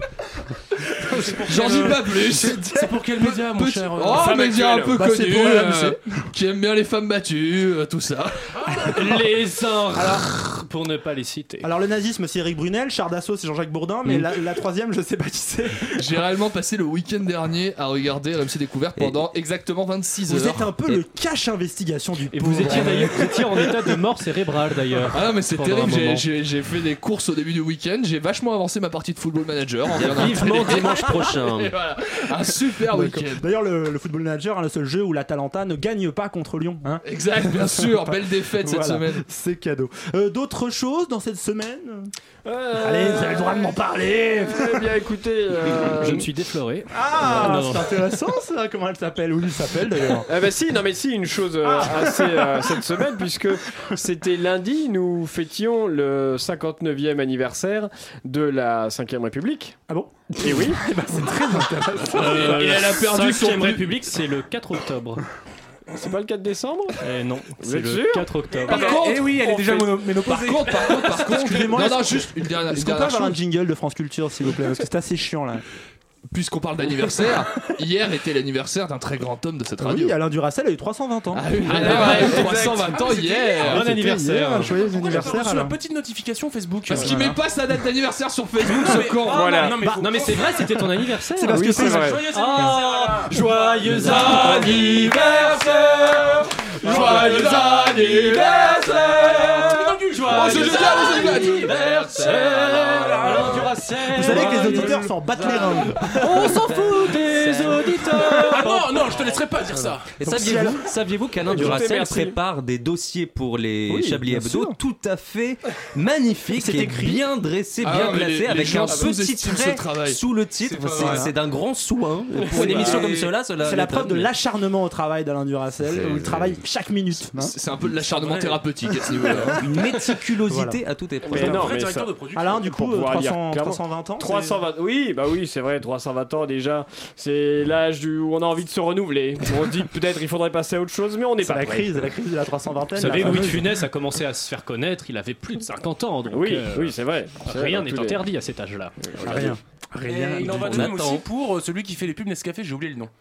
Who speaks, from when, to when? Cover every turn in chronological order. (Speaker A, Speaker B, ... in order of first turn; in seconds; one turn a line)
Speaker A: 1.1-8.8
Speaker B: 1.1-3.0
Speaker C: 2.7-4.4
Speaker D: 4.0-5.0
Speaker B: 5.0-6.0
Speaker E: 8.9-11.7
Speaker B: 9.9-10.3
Speaker B: 11.6-16.1
Speaker A: 15.9-20.7
Speaker F: 19.0-19.2
Speaker B: 20.3-23.7
Speaker E: 22.3-26.2
Speaker A: 22.7-23.1
Speaker A: 25.1-33.4
Speaker F: 29.9-31.7
Speaker B: 32.6-42.1
Speaker A: 37.0-39.2
Speaker D: 42.5-43.8
Speaker B: 42.8-44.9
Speaker D: 44.3-46.3
Speaker E: 46.0-47.9
Speaker B: 46.9-50.3
Speaker D: 50.3-59.8
Speaker B: 51.6-52.9
Speaker B: 59.9-62.6
Speaker D: 60.4-60.8
Speaker E: 62.1-65.2
Speaker D: 62.2-62.7
Speaker A: 62.2-64.0
Speaker D: 65.9-67.0
Speaker E: 67.0-68.9
Speaker D: 67.6-70.0
Speaker A: 68.7-69.6
Speaker C: 68.7-71.7
Speaker A: 70.2-73.4
Speaker B: 71.2-75.7
Speaker A: 76.3-80.2
Speaker B: 79.8-82.3
Speaker A: 81.3-83.8
Speaker E: 81.7-83.0
Speaker C: 81.8-83.7
Speaker E: 83.6-84.8
Speaker B: 83.6-85.7
Speaker C: 84.8-87.2
Speaker B: 86.9-87.4
Speaker A: 86.9-89.7
Speaker C: 88.6-90.6
Speaker D: 89.2-89.8
Speaker E: 90.0-96.3
Speaker B: 91.3-92.2
Speaker D: 91.5-92.3
Speaker C: 91.7-93.9
Speaker A: 93.9-99.6
Speaker E: 96.9-108.8
Speaker D: 96.9-97.3
Speaker C: 97.0-97.5
Speaker C: 99.7-101.5
Speaker A: 100.3-102.0
Speaker F: 102.0-102.8
Speaker C: 102.2-103.7
Speaker B: 104.1-106.4
Speaker F: 106.6-108.0
Speaker C: 108.4-110.2
Speaker F: 110.2-124.3
Speaker B: 110.2-110.9
Speaker D: 111.5-112.4
Speaker B: 113.9-114.8
Speaker B: 116.0-117.3
Speaker A: 117.8-120.2
Speaker D: 118.9-119.1
Speaker C: 120.7-121.2
Speaker B: 120.9-121.3
Speaker D: 122.3-123.3
Speaker B: 122.5-123.1
Speaker B: 123.6-127.5
Speaker F: 125.9-126.6
Speaker A: 127.4-129.6
Speaker C: 128.1-128.6
Speaker F: 129.7-131.7
Speaker B: 130.5-130.8
Speaker D: 131.2-132.1
Speaker B: 131.4-131.6
Speaker C: 131.4-132.7
Speaker B: 132.3-134.6
Speaker D: 132.7-142.1
Speaker B: 141.4-143.8
Speaker E: 143.0-148.9
Speaker D: 146.3-148.2
Speaker D: 149.0-149.6
Speaker B: 149.2-150.9
Speaker C: 150.0-153.1
Speaker F: 150.5-151.2